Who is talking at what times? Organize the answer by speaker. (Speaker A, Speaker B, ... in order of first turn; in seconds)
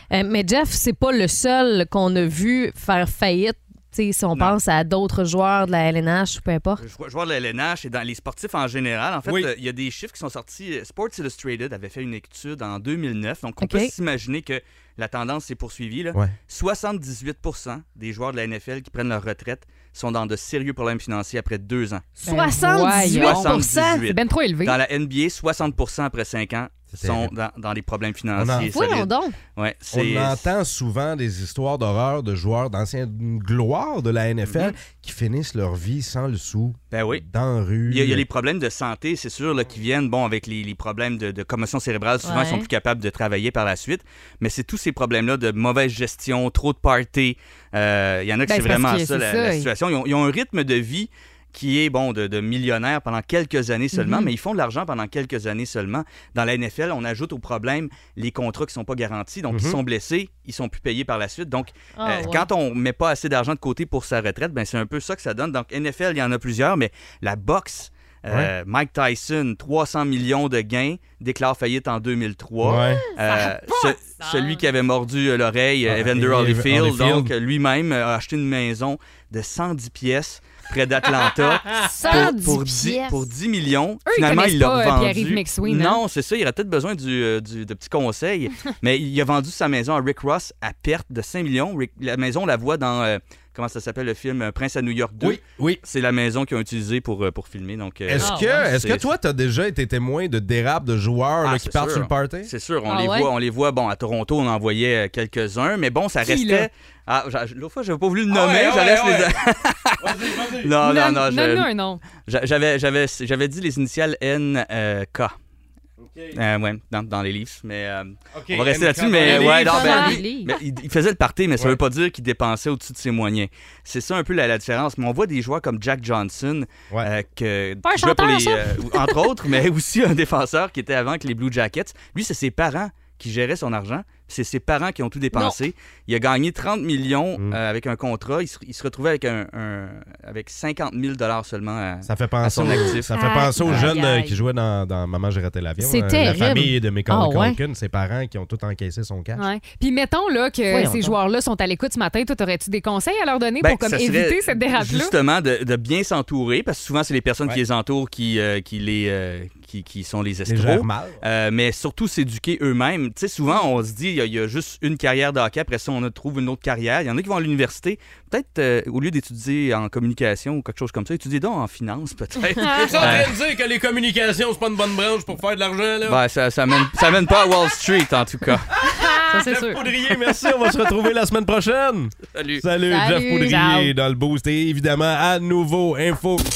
Speaker A: 0.1-6.8, 13.6-13.9, 22.2-24.0, 28.7-29.4, 42.2-42.7, 62.0-62.5, 81.9-83.3, 98.2-98.7, 102.9-103.3, 119.2-120.5, 127.8-129.1, 143.1-144.4, 145.8-147.6, 150.7-151.2, 179.3-180.2, 182.9-183.9
Speaker B: 6.8-22.1, 23.1-30.5, 34.5-34.8, 36.9-37.2, 37.9-99.1, 101.4-115.3, 116.3-143.1, 153.6-173.3, 176.1-178.7, 182.3-182.6
Speaker C: 9.2-9.5, 26.9-27.3, 28.4-28.7, 29.9-38.2, 59.5-59.8, 72.6-73.0, 75.9-77.3, 95.2-95.8, 98.1-102.5, 108.3-109.4, 110.0-110.8, 116.0-116.4, 118.3-120.0, 142.1-149.5, 160.5-161.2, 172.7-176.2, 178.8-186.4
Speaker D: 22.2-24.8, 48.5-49.7, 53.9-54.3, 84.1-86.0, 106.2-106.7, 110.8-112.0, 119.3-120.5, 143.7-144.0, 149.4-155.1